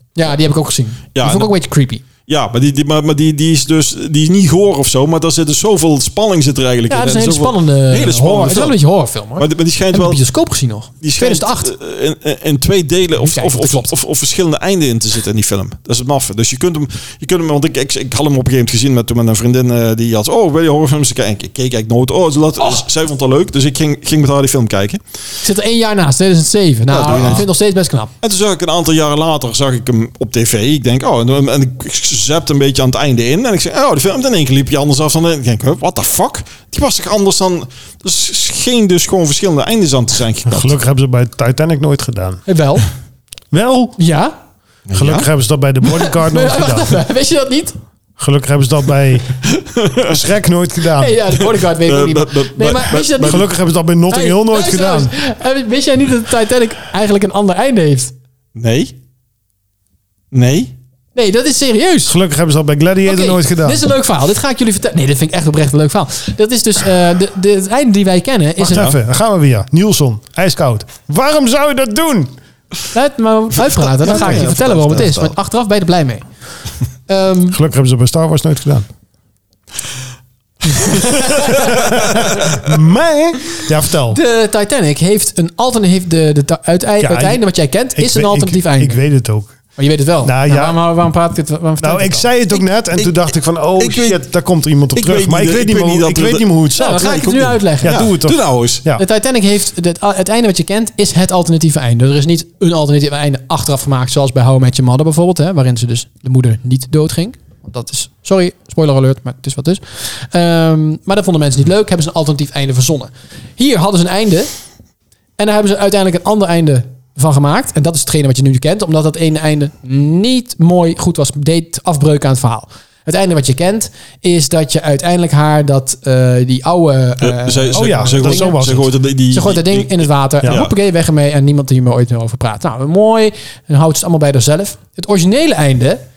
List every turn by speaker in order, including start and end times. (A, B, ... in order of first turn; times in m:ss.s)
0:00.2-0:02.0 A
0:01.1-0:01.5 B
0:02.3-0:08.8 B
0:06.9-0:11.7 A
0:09.4-0:10.2 B
0:11.0-0:25.0 B
0:13.2-0:13.9 A
0:22.6-0:22.8 A
0:25.4-0:28.1 A
0:26.9-0:27.4 B
0:28.2-0:40.8 B
0:40.4-0:42.4 C
0:42.5-0:42.9 A
0:43.5-0:44.0 C
0:44.0-0:44.3 A
0:44.9-0:45.3 B
0:44.9-0:47.0 C
0:45.9-0:47.8 A
0:48.2-0:49.4 C
0:49.6-0:50.2 B
0:50.0-0:51.2 C
0:51.0-0:53.4 A
0:51.3-0:53.4 B
0:53.2-0:55.1 C
0:54.1-0:58.1 A
0:58.6-0:58.9 B
1:00.3-1:00.7 B
1:01.1-1:02.2 A
1:02.0-1:03.8 C
1:03.0-1:08.9 A
1:08.6-1:12.3 C
1:12.9-1:16.2 A
1:13.7-1:15.3 B
1:17.1-1:17.6 A
1:17.5-1:18.8 C
1:20.8-1:21.9 A
1:21.7-1:24.2 C
1:24.1-1:29.0 A
1:27.0-1:27.4 C
1:27.9-1:29.6 C
1:29.8-1:32.3 A
1:30.2-1:30.8 C
1:31.8-1:39.0 C
1:33.0-1:33.2 B
1:33.8-1:34.2 B
1:34.9-1:38.8 B
1:36.8-1:38.1 A
1:39.0-1:54.5 A
1:55.4-2:08.6 A
2:07.2-2:10.7 B
2:07.7-2:08.9 C
2:09.3-2:16.0 A